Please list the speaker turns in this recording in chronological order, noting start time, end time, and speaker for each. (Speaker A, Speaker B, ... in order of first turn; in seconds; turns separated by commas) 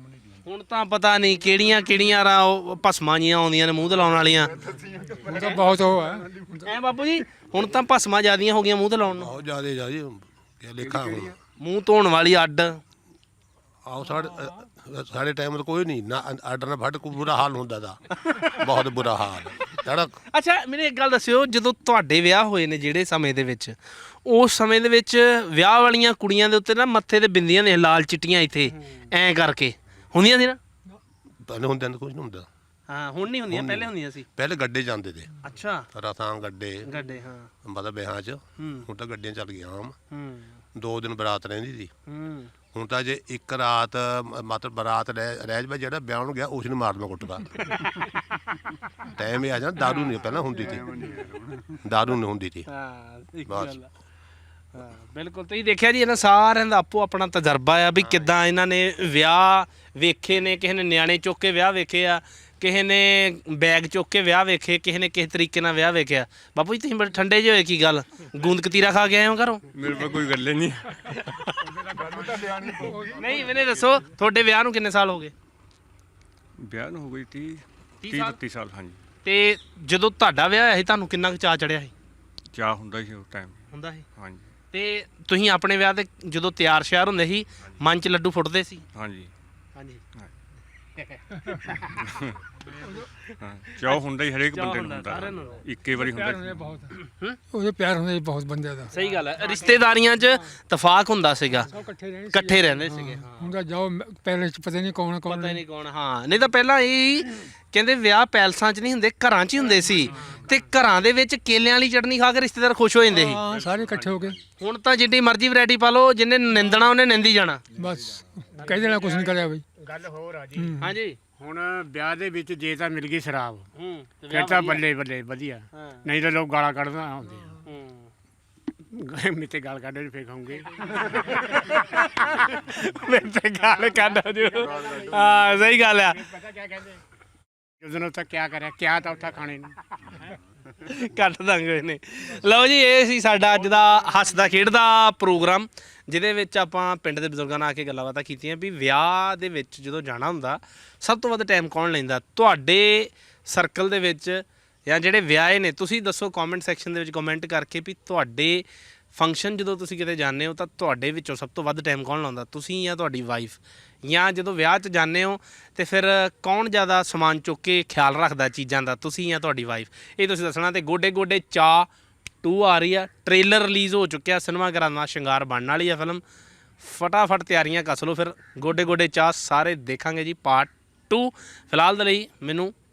Speaker A: 0.5-4.5, Speaker B: 4.3-6.7, Speaker C: 5.2-6.7, Speaker A: 6.7-9.3, Speaker D: 9.1-11.3, Speaker B: 10.9-11.3, Speaker A: 11.6-12.8, Speaker D: 13.9-20.2, Speaker A: 18.2-18.6, Speaker A: 20.3-30.6, Speaker D: 31.4-32.5, Speaker A: 32.9-34.3, Speaker D: 33.5-35.3, Speaker A: 35.4-35.9, Speaker D: 35.9-36.9, Speaker A: 36.9-37.5, Speaker D: 37.6-40.0, Speaker A: 38.6-38.9, Speaker A: 40.1-40.6, Speaker D: 40.8-41.9, Speaker A: 42.1-42.5, Speaker D: 42.7-47.7, Speaker D: 49.1-50.9, Speaker B: 50.5-51.8, Speaker D: 51.8-52.7, Speaker A: 52.7-53.9, Speaker D: 53.5-53.8, Speaker A: 54.7-69.7, Speaker D: 58.0-58.3, Speaker E: 69.7-70.9, Speaker C: 72.2-73.5, Speaker B: 72.3-72.8, Speaker A: 73.1-75.3, Speaker E: 76.6-79.0, Speaker A: 78.0-78.4, Speaker A: 79.2-81.9, Speaker E: 82.5-83.6, Speaker A: 83.7-84.0, Speaker E: 84.2-84.5, Speaker A: 84.7-88.8, Speaker E: 89.0-89.3, Speaker A: 89.8-90.0, Speaker A: 91.0-91.9, Speaker E: 92.0-92.4, Speaker E: 93.4-96.8, Speaker A: 94.5-95.6, Speaker C: 95.9-96.9, Speaker A: 97.0-97.4, Speaker C: 97.5-99.0, Speaker A: 98.9-101.7, Speaker F: 99.0-99.8, Speaker C: 101.7-105.6, Speaker A: 102.3-103.5, Speaker A: 105.3-113.4, Speaker F: 110.1-110.6, Speaker C: 113.1-114.4, Speaker E: 113.4-114.3, Speaker A: 114.6-117.6, Speaker C: 117.8-119.6, Speaker F: 118.5-120.8, Speaker C: 120.6-121.0, Speaker A: 120.8-121.2, Speaker F: 121.4-123.7, Speaker A: 123.8-124.8, Speaker F: 124.3-127.6, Speaker A: 125.7-126.0, Speaker A: 127.7-128.1, Speaker F: 128.9-131.6, Speaker A: 130.8-136.3, Speaker F: 134.6-135.1, Speaker F: 136.2-137.0, Speaker F: 137.8-139.7, Speaker A: 140.8-171.9, Speaker A: 172.4-176.2, Speaker A: 176.8-182.7